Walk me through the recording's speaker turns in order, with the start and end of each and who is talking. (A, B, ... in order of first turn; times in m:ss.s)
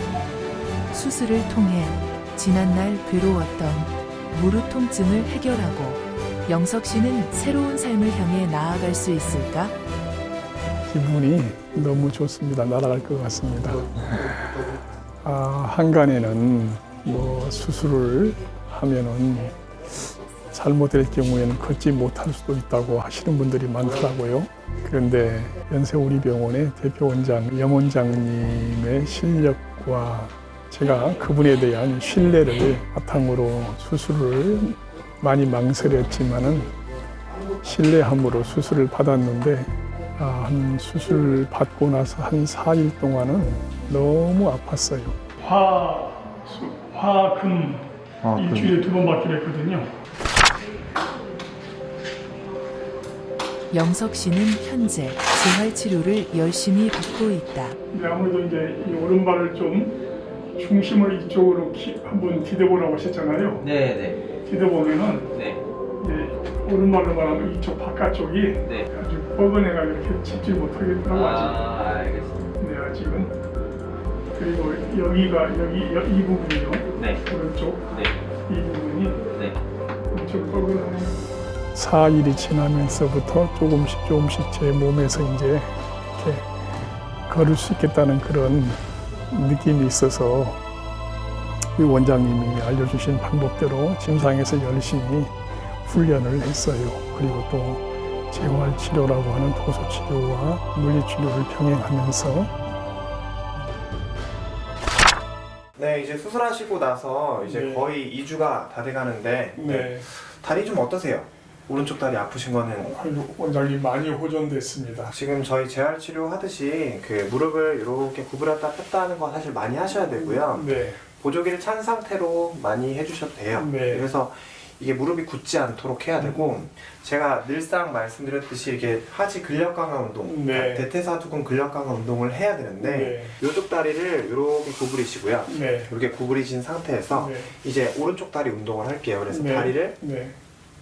0:00.9-0:09.7 A
0:10.9-0:14.3 B
0:15.2-0:19.6 B
0:20.5-0:36.7 B
0:37.6-0:49.9 B
0:48.2-0:48.8 C
0:53.7-0:57.8 A
0:57.9-1:00.0 B
1:00.6-1:03.7 B
1:03.6-1:04.2 D
1:04.4-1:05.4 B
1:05.3-1:05.6 D
1:06.0-1:11.7 B
1:11.1-1:12.5 D
1:12.6-1:13.4 B
1:14.3-1:19.3 B
1:17.0-1:17.2 D
1:19.3-1:19.6 D
1:20.1-1:26.5 B
1:27.3-1:30.6 B
1:31.8-1:42.5 B
1:45.8-1:53.0 C
1:47.4-1:47.9 B
1:49.5-1:50.0 B
1:52.8-1:55.1 B
1:55.1-2:20.0 C
2:00.1-2:01.0 B
2:03.5-2:04.1 B
2:06.2-2:06.6 B
2:10.2-2:10.9 B
2:12.8-2:13.4 B
2:15.4-2:15.9 B
2:17.1-2:17.5 B
2:19.3-2:20.4 B